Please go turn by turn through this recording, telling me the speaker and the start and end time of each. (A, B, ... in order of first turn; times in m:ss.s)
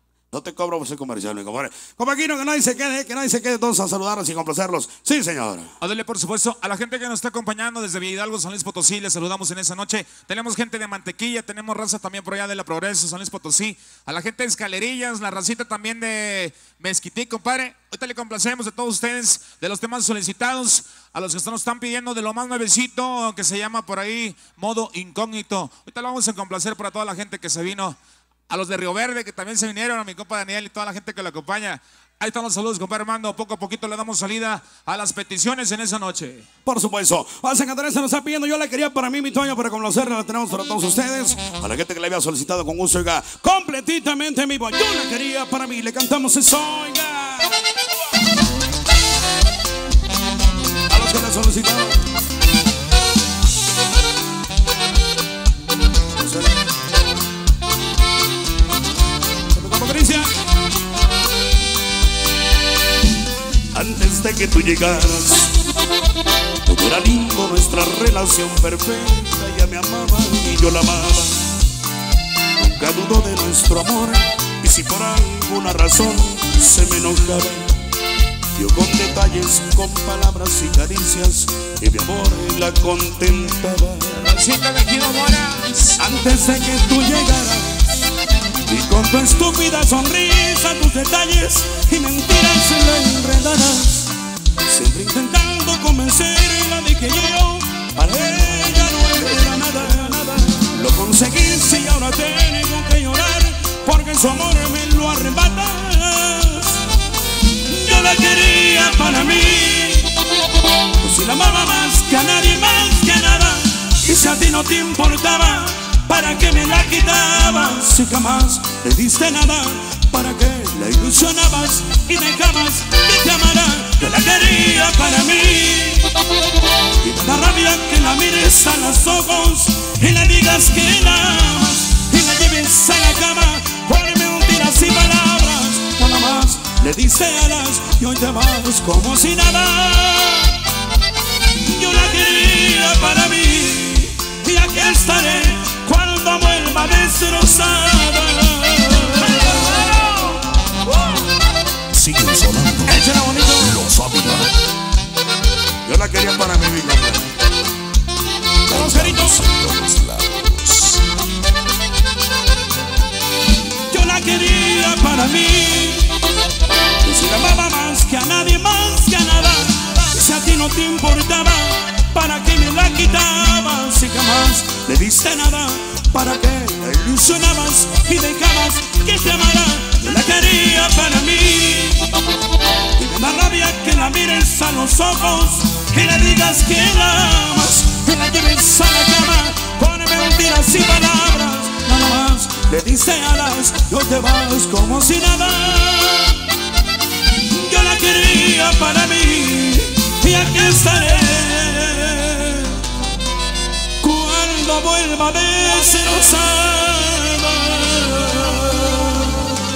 0:00.3-0:05.7 A
0:05.8-0:28.0 B
0:28.5-0:36.5 B
0:36.7-0:47.6 A
0:50.9-0:52.0 A
0:56.2-0:56.6 A
0:59.5-1:00.3 A
1:03.7-1:05.5 A
1:06.7-1:11.4 A
1:12.6-1:17.7 A
1:18.6-1:24.3 A
1:24.1-1:26.0 B
1:26.0-1:28.0 A
1:28.7-1:34.1 A
1:34.7-1:46.8 A
1:47.7-1:50.1 A
1:51.0-2:06.1 A
2:07.0-2:20.6 A
2:21.6-2:30.3 A
2:31.9-2:34.6 C
2:32.9-2:33.8 A
2:35.8-2:37.3 A
2:38.7-2:41.0 C
2:38.7-2:39.4 A
2:43.9-2:46.2 A
2:47.0-3:02.1 A
3:03.0-3:16.4 A
3:17.5-3:22.8 A
3:24.0-3:29.3 A